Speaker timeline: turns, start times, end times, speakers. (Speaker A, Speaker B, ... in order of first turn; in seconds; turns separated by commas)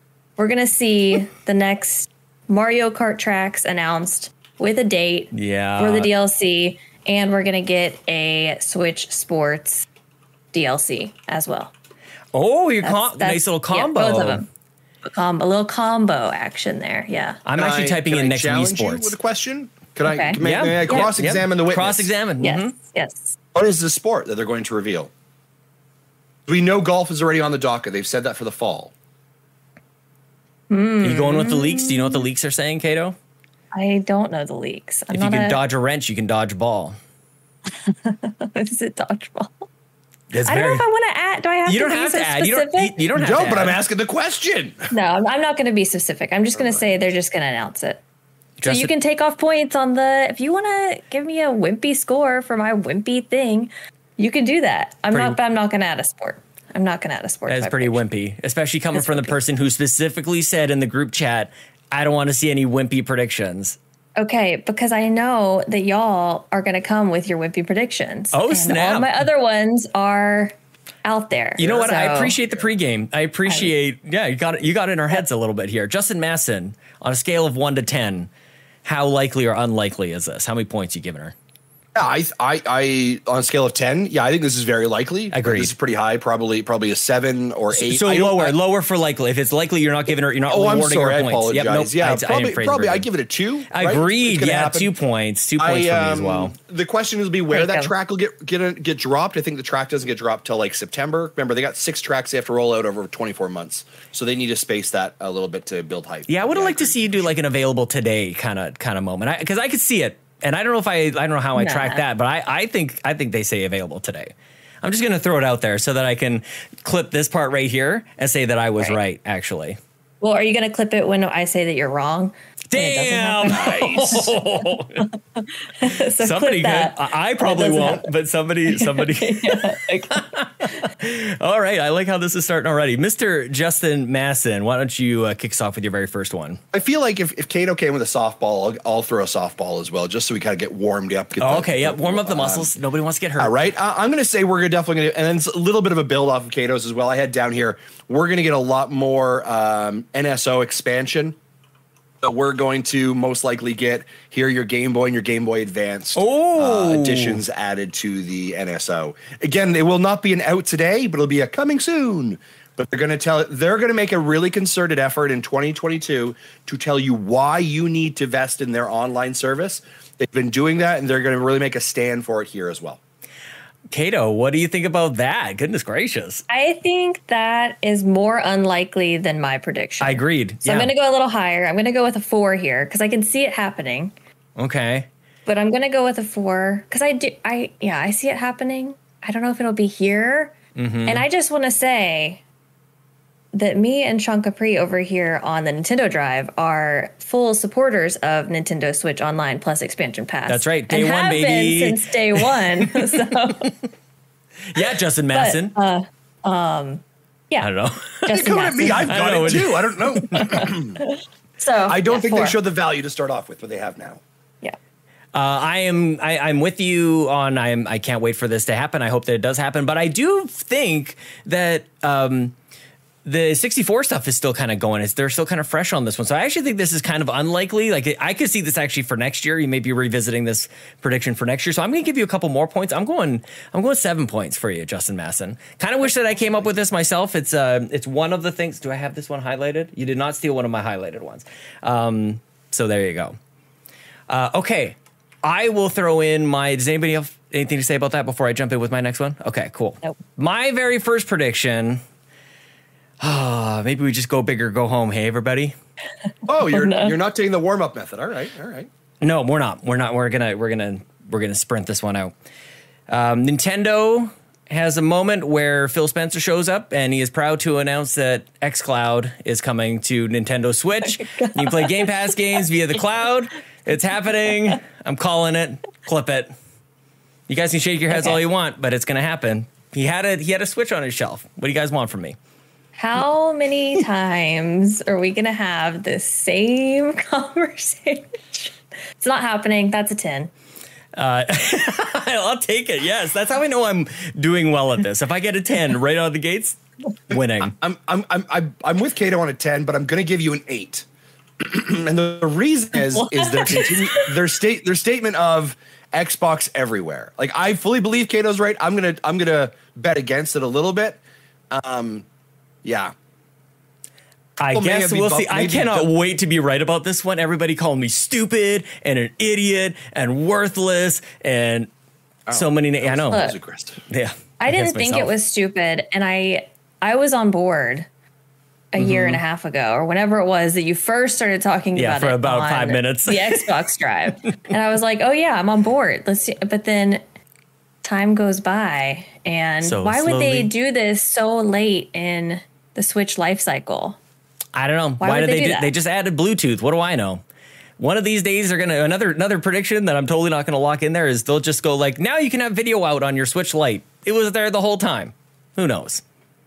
Speaker A: 0.4-9.9, Speaker B: 5.3-6.1, Speaker A: 10.5-11.7, Speaker B: 12.3-14.4, Speaker A: 12.8-14.5, Speaker A: 15.0-17.4, Speaker B: 17.4-19.2, Speaker C: 17.6-22.1, Speaker A: 20.1-21.1, Speaker B: 20.4-22.7, Speaker A: 22.4-23.4, Speaker C: 23.6-25.1, Speaker C: 26.5-28.9, Speaker A: 30.7-32.2, Speaker B: 31.0-33.2, Speaker A: 33.7-35.6, Speaker B: 35.1-37.0, Speaker A: 37.8-39.7, Speaker B: 40.3-40.8, Speaker A: 40.5-43.0, Speaker B: 41.6-43.8, Speaker C: 43.1-44.9, Speaker A: 44.9-48.0, Speaker C: 46.5-46.9, Speaker B: 48.6-48.9, Speaker A: 48.6-58.0, Speaker B: 57.5-63.8, Speaker A: 59.0-59.4, Speaker A: 64.2-72.4, Speaker B: 68.3-69.2, Speaker B: 71.6-78.3, Speaker B: 78.8-81.3, Speaker C: 82.0-88.6, Speaker B: 85.3-85.7, Speaker B: 87.7-93.1, Speaker C: 90.5-94.9, Speaker B: 93.7-96.5, Speaker C: 95.6-107.4, Speaker A: 97.5-97.9, Speaker B: 106.3-119.8, Speaker A: 111.6-112.0, Speaker A: 120.2-123.8, Speaker B: 122.7-125.1, Speaker C: 123.5-124.3, Speaker A: 125.4-128.1, Speaker B: 125.9-136.6, Speaker A: 128.7-130.8, Speaker C: 136.7-142.7, Speaker B: 141.4-143.5, Speaker C: 143.4-151.4, Speaker C: 152.2-173.0, Speaker B: 156.2-157.4, Speaker B: 173.9-176.4, Speaker A: 176.5-184.1, Speaker B: 180.0-180.9, Speaker B: 184.6-185.1, Speaker A: 185.5-190.6, Speaker B: 190.8-191.2, Speaker A: 191.1-192.4, Speaker A: 193.5-203.7, Speaker B: 200.5-203.7, Speaker B: 204.7-205.7, Speaker A: 204.8-207.7, Speaker B: 207.6-210.7, Speaker A: 208.2-209.2, Speaker C: 208.3-211.0, Speaker A: 210.3-212.6, Speaker C: 211.9-214.2, Speaker B: 215.3-222.6, Speaker B: 223.2-243.4, Speaker B: 244.3-252.0, Speaker B: 253.2-255.8, Speaker C: 256.5-258.9, Speaker A: 256.6-257.1, Speaker B: 259.2-262.3, Speaker B: 263.1-276.5, Speaker A: 271.2-272.3, Speaker B: 277.5-282.4, Speaker A: 278.1-278.4, Speaker A: 283.0-290.5, Speaker B: 291.1-297.8, Speaker C: 297.6-301.1, Speaker C: 301.6-311.2, Speaker A: 303.0-304.4, Speaker C: 311.7-312.3, Speaker C: 312.8-313.1, Speaker B: 314.6-321.9, Speaker C: 314.7-316.1, Speaker C: 322.5-324.0, Speaker B: 322.5-323.5, Speaker A: 323.3-323.6, Speaker B: 324.1-325.3, Speaker A: 324.6-328.1, Speaker A: 328.9-337.2, Speaker B: 329.0-329.4, Speaker B: 331.9-333.7, Speaker A: 338.0-344.2, Speaker B: 339.8-340.7, Speaker B: 344.8-347.4, Speaker A: 345.2-345.9, Speaker B: 348.0-356.2